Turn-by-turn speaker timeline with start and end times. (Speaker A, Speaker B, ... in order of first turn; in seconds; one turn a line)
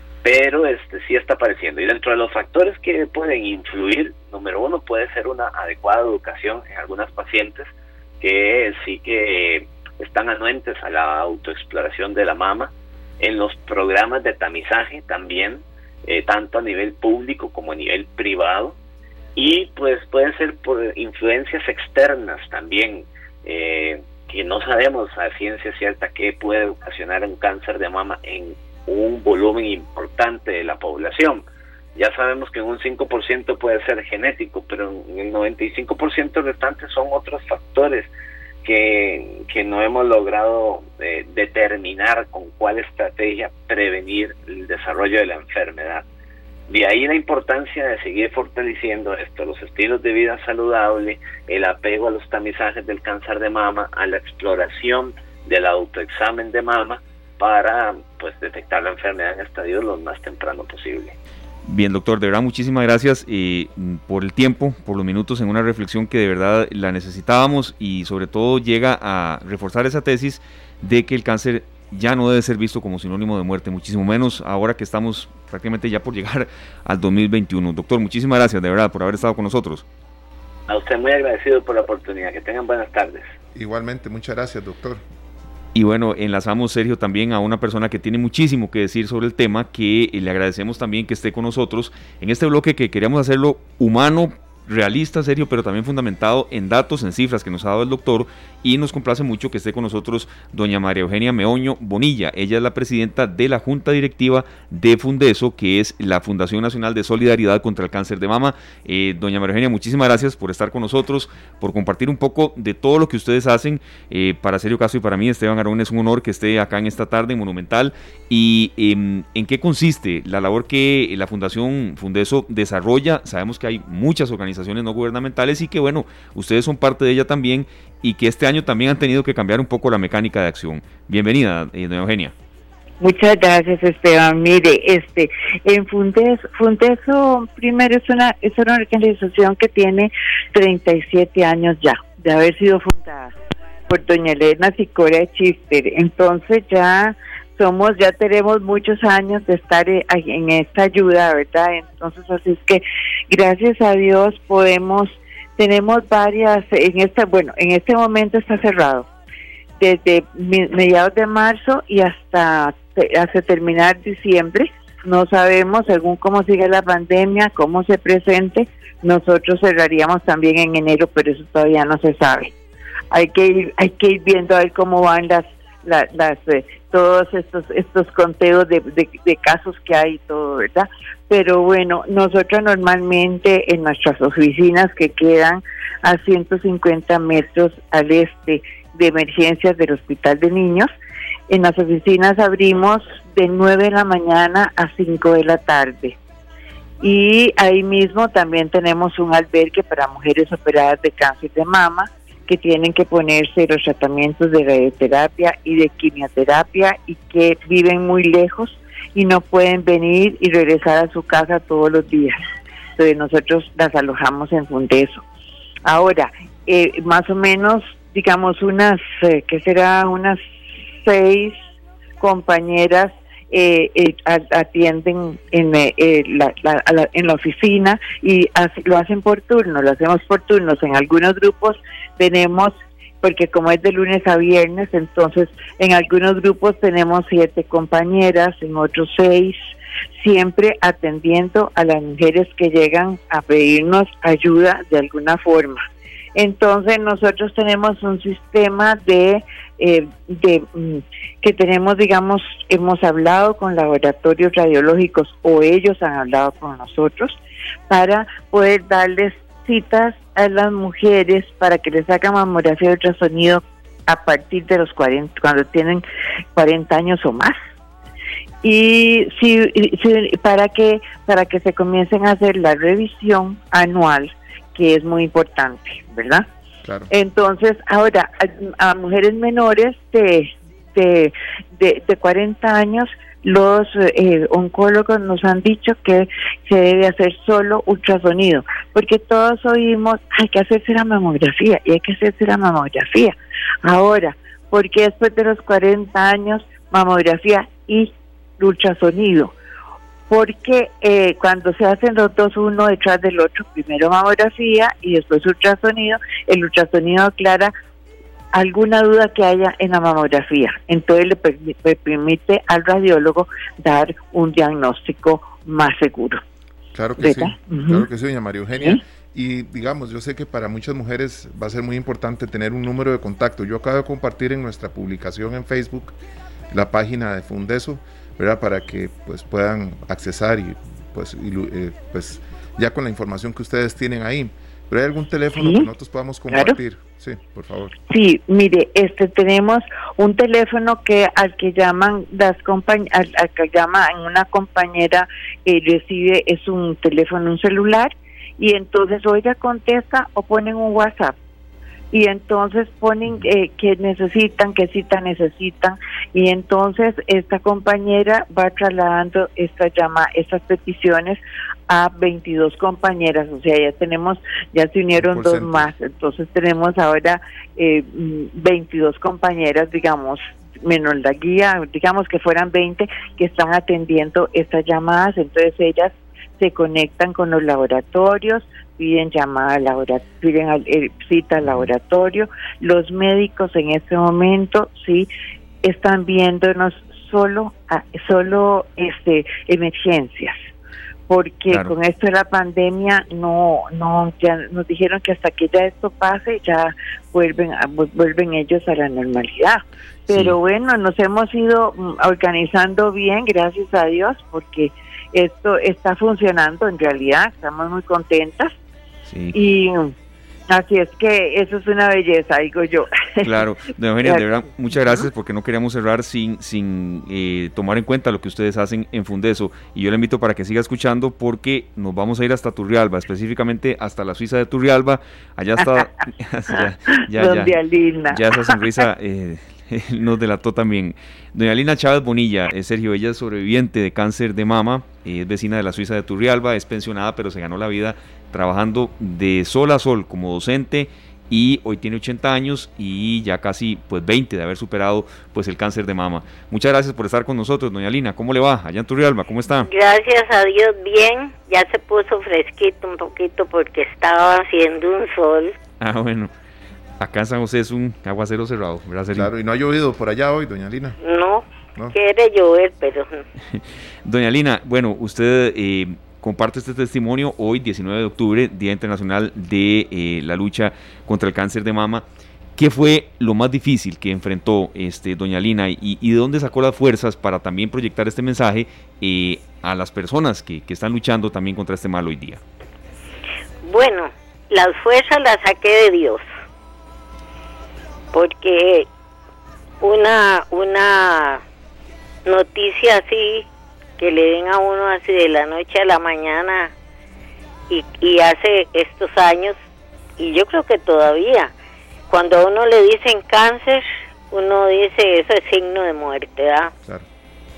Speaker A: 0.2-7.7
Speaker A: 8.2-18.8
Speaker A: 19.4-31.4
Speaker A: 31.9-38.1
Speaker A: 38.6-46.0
Speaker A: 46.7-61.1
Speaker B: 61.7-79.8
Speaker A: 80.7-83.3
Speaker C: 83.5-85.0
Speaker B: 85.7-132.3
Speaker D: 133.0-143.3
Speaker D: 143.9-159.1
Speaker D: 159.8-172.5
Speaker D: 173.1-190.9
Speaker D: 191.5-196.2
Speaker D: 197.0-212.4
Speaker D: 213.0-215.2
Speaker D: 215.8-220.4
Speaker D: 221.0-221.6
Speaker D: 222.2-239.6
Speaker D: 240.2-245.8
Speaker D: 246.3-257.4
Speaker D: 257.9-266.0
Speaker D: 266.6-267.6
Speaker D: 268.6-276.4
Speaker C: 276.8-277.1
Speaker D: 277.1-299.5
Speaker D: 300.3-307.7
Speaker D: 308.5-316.4
Speaker C: 316.9-326.1
Speaker D: 317.2-318.0
Speaker C: 326.7-337.9
Speaker D: 335.6-335.9
Speaker D: 336.5-336.8
Speaker D: 338.1-351.4
Speaker D: 352.1-385.3
Speaker C: 365.1-365.9
Speaker B: 381.6-381.9
Speaker D: 385.8-390.6
Speaker D: 391.3-408.7
Speaker B: 400.3-400.6
Speaker B: 409.3-409.6
Speaker D: 409.5-410.1
Speaker D: 410.7-413.5
Speaker B: 413.4-449.9
Speaker D: 425.8-426.1
Speaker D: 426.7-429.0
Speaker E: 449.9-455.8
Speaker B: 456.0-456.5
Speaker B: 457.2-459.5
Speaker C: 459.3-461.2
Speaker E: 461.2-463.4
Speaker B: 463.7-472.2
Speaker B: 472.8-482.6
Speaker E: 483.8-486.4
Speaker E: 488.3-489.1
Speaker E: 490.0-491.6
Speaker E: 492.4-493.7
Speaker E: 494.2-496.9
Speaker E: 497.9-499.8
Speaker E: 500.4-501.7
Speaker E: 502.3-506.9